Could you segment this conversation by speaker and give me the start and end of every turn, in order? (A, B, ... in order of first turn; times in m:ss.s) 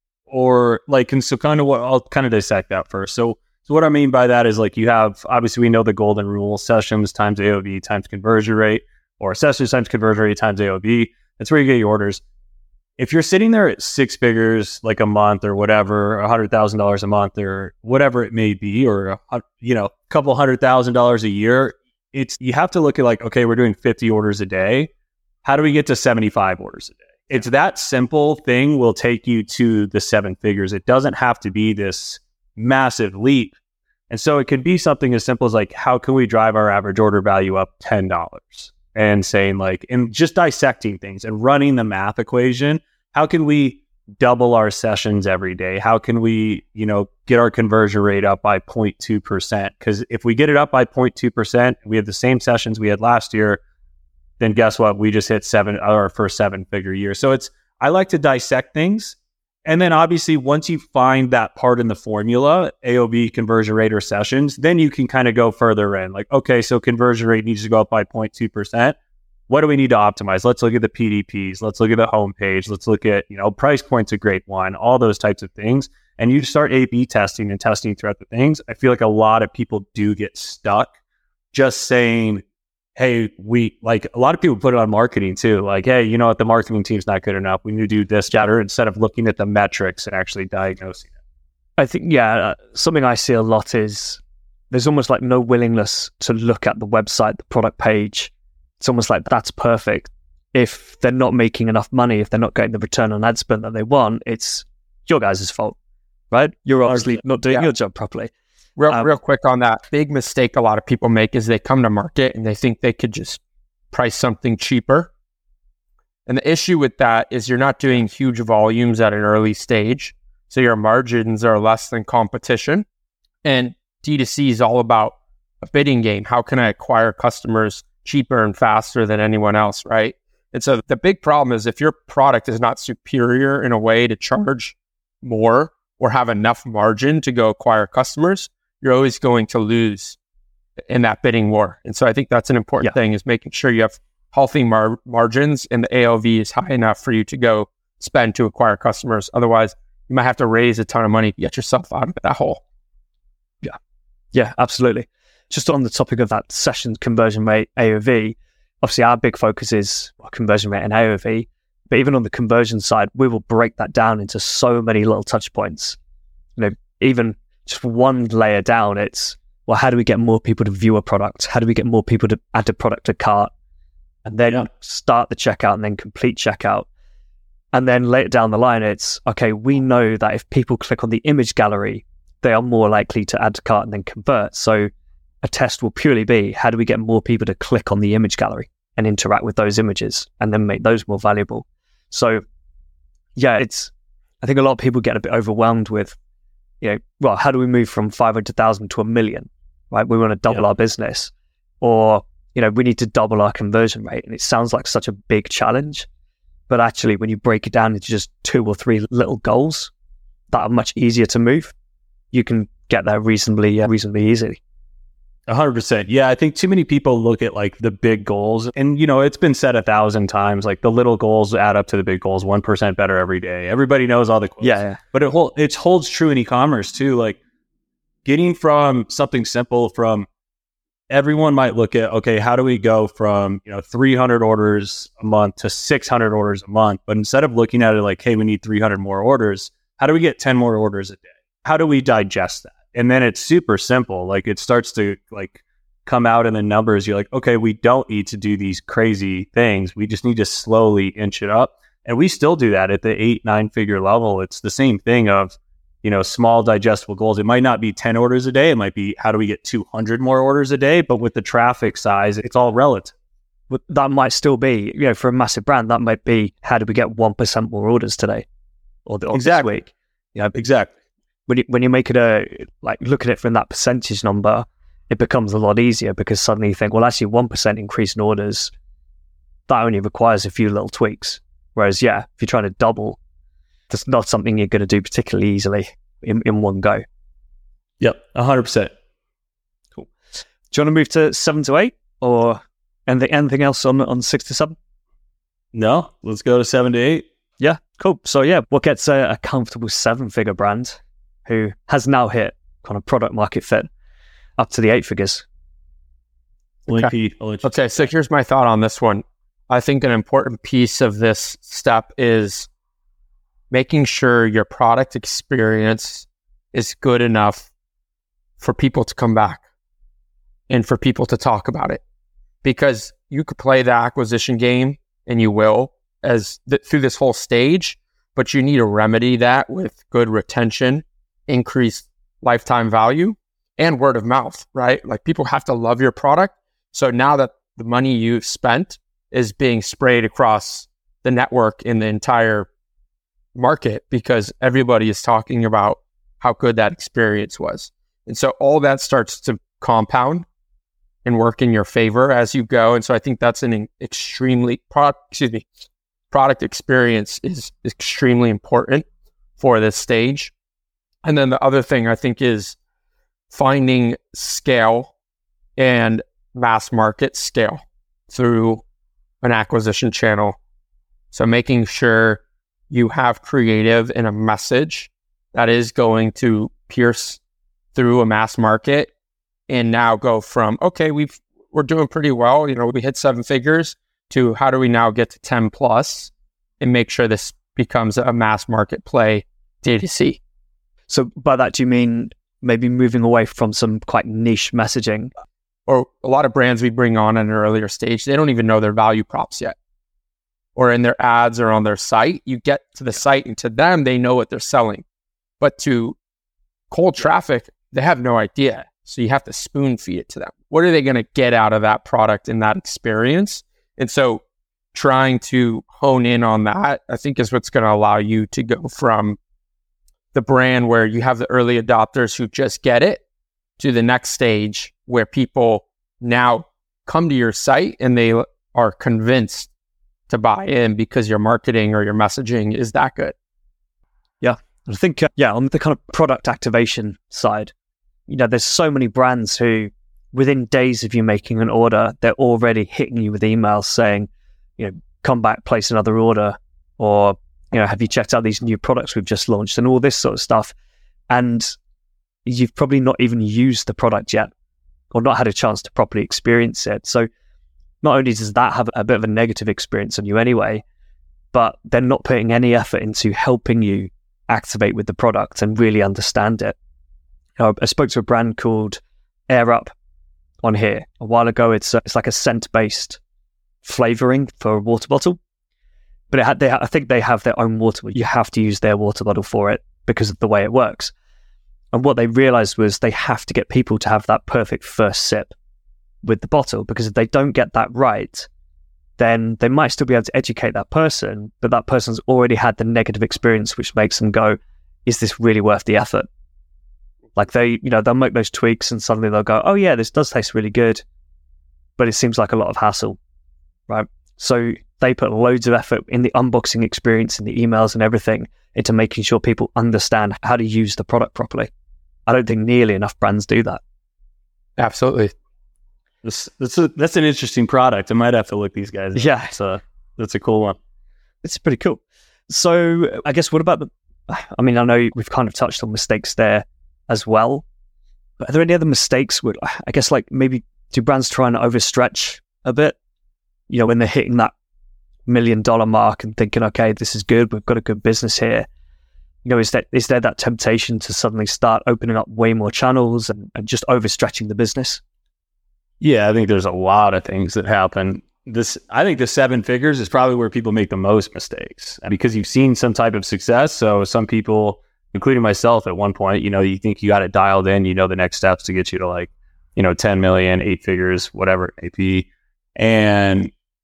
0:00.3-0:12.2 A
0:13.0-0:24.9 A
0:25.4-0:33.6 A
0:34.1-0:53.6 A
0:54.4-1:09.0 A
1:09.5-1:20.9 A
1:21.5-1:22.4 A
1:23.0-1:31.1 A
1:31.8-1:45.7 B
1:46.3-1:48.3 B
1:48.8-1:55.1 C
1:56.3-2:02.8 C
2:03.4-2:20.2 C
2:20.9-2:32.6 C
2:34.3-2:46.0 B
2:46.6-2:53.5 B
2:54.2-2:56.9 B
2:57.7-3:04.9 B
3:05.4-3:12.4 B
3:13.4-3:16.2 B
3:16.8-3:26.1 B
3:26.7-3:29.9 B
3:30.5-3:31.7 B
3:32.3-3:34.6 B
3:35.5-3:47.4 A
3:44.6-3:45.0 B
3:48.2-3:50.3 A
3:51.1-4:23.1 A
4:23.7-4:28.4 B
4:29.0-4:29.9 B
4:29.3-4:29.7 A
4:30.3-4:30.9 A
4:31.5-4:38.7 B
4:39.7-4:43.2 B
4:43.9-4:47.0 B
4:48.0-4:48.9 A
4:50.7-4:54.8 B
4:55.7-4:57.2 A
4:57.6-5:03.9 B
5:04.6-5:05.4 B
5:06.9-5:07.7 A
5:07.6-5:12.7 C
5:13.7-5:17.7 C
5:18.6-5:19.6 C
5:20.7-5:22.0 C
5:22.6-5:42.7 C
5:43.5-5:50.4 C
5:51.2-5:55.6 C
5:56.3-5:59.0 C
5:59.6-6:00.5 C
6:01.2-6:02.8 C
6:03.5-6:05.1 C
6:05.8-6:08.8 C
6:09.4-6:10.6 C
6:11.3-6:17.4 C
6:17.9-6:19.1 C
6:19.7-6:30.4 C
6:31.1-6:35.3 B
6:35.9-6:39.8 C
6:40.8-6:45.0 C
6:45.6-6:46.2 C
6:46.9-6:54.4 C
6:54.9-6:59.4 C
7:00.3-7:03.2 C
7:03.8-7:09.7 C
7:10.3-7:13.3 C
7:14.4-7:17.7 B
7:18.3-7:30.7 B
7:31.3-7:31.7 B
7:32.4-7:34.5 B
7:35.1-7:37.3 B
7:38.0-7:40.8 B
7:41.5-7:46.8 B
7:47.6-7:49.9 B
7:50.6-7:53.2 B
7:53.8-7:55.4 B
7:56.3-8:01.1 B
8:01.9-8:05.5 B
8:06.2-8:08.5 B
8:09.2-8:16.3 B
8:17.4-8:21.0 B
8:22.0-8:23.2 B
8:23.9-8:31.7 B
8:32.3-8:33.8 B
8:34.8-8:35.3 C
8:36.2-8:40.8 A
8:39.1-8:39.5 B
8:41.4-8:47.6 B
8:48.4-8:53.0 B
8:53.7-8:54.5 B
8:55.3-8:58.7 B
8:59.4-9:05.0 B
9:06.0-9:23.5 A